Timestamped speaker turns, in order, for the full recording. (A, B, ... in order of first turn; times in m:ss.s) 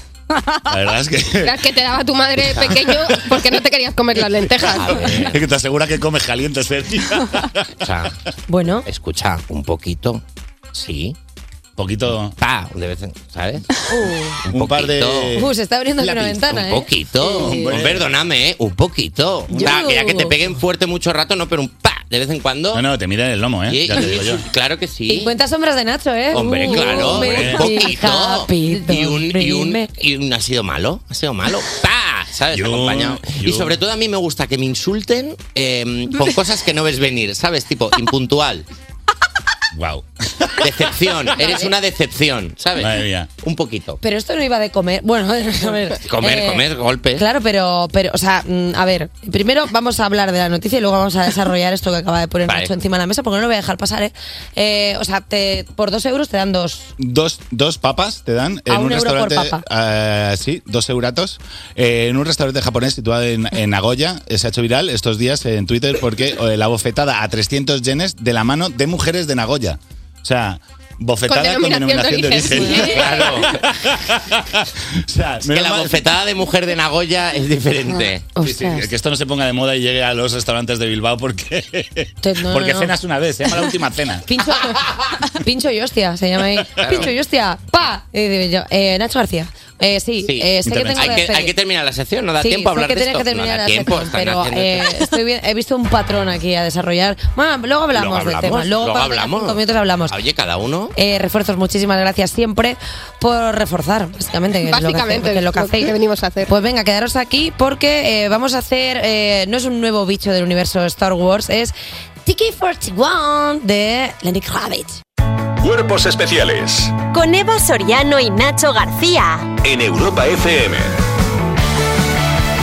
0:00.7-0:01.6 A
0:01.4-0:05.0 B
0:02.5-0:02.9 A
0:04.6-0:05.4 C
0:05.0-0:07.6 A
0:07.8-0:08.1 C
0:08.5-0:08.9 D
0:08.9-0:11.2 C
0:11.8-0:12.4 A
0:12.4-0:13.7 C
0:13.9-0:14.4 D
0:14.5-0:15.4 C
0:14.5-0:15.5 A
0:15.4-0:17.7 D
0:16.0-0:16.3 A
0:16.2-0:22.8 C
0:17.3-0:18.1 A
0:19.5-0:20.4 D
0:22.7-0:24.5 A
0:23.7-0:25.3 C
0:25.1-0:29.9 D
0:26.3-0:38.7 C
0:26.9-0:27.8 A
0:32.5-0:33.8 A
0:39.7-0:40.8 A
0:40.6-0:44.0 C
0:42.8-0:43.3 A
0:44.0-0:46.6 D
0:46.0-0:47.2 C
0:47.2-0:56.9 D
0:52.5-0:52.7 C
0:57.0-1:16.0 A
0:58.7-0:59.6 D
1:11.3-1:13.1 B
1:12.5-1:13.0 D
1:12.8-1:13.6 C
1:15.5-1:18.3 C
1:18.3-1:18.9 D
1:18.4-1:24.3 A
1:22.2-1:22.9 D
1:24.3-1:31.5 D
1:26.8-1:27.1 C
1:30.2-1:35.0 C
1:30.7-1:31.2 A
1:32.4-1:40.2 D
1:37.9-1:40.9 C
1:41.0-1:45.9 D
1:44.6-1:46.5 B
1:46.5-1:51.7 D
1:52.3-1:55.0 D
1:55.6-1:57.0 E
1:57.1-1:59.5 F
1:59.6-2:00.9 E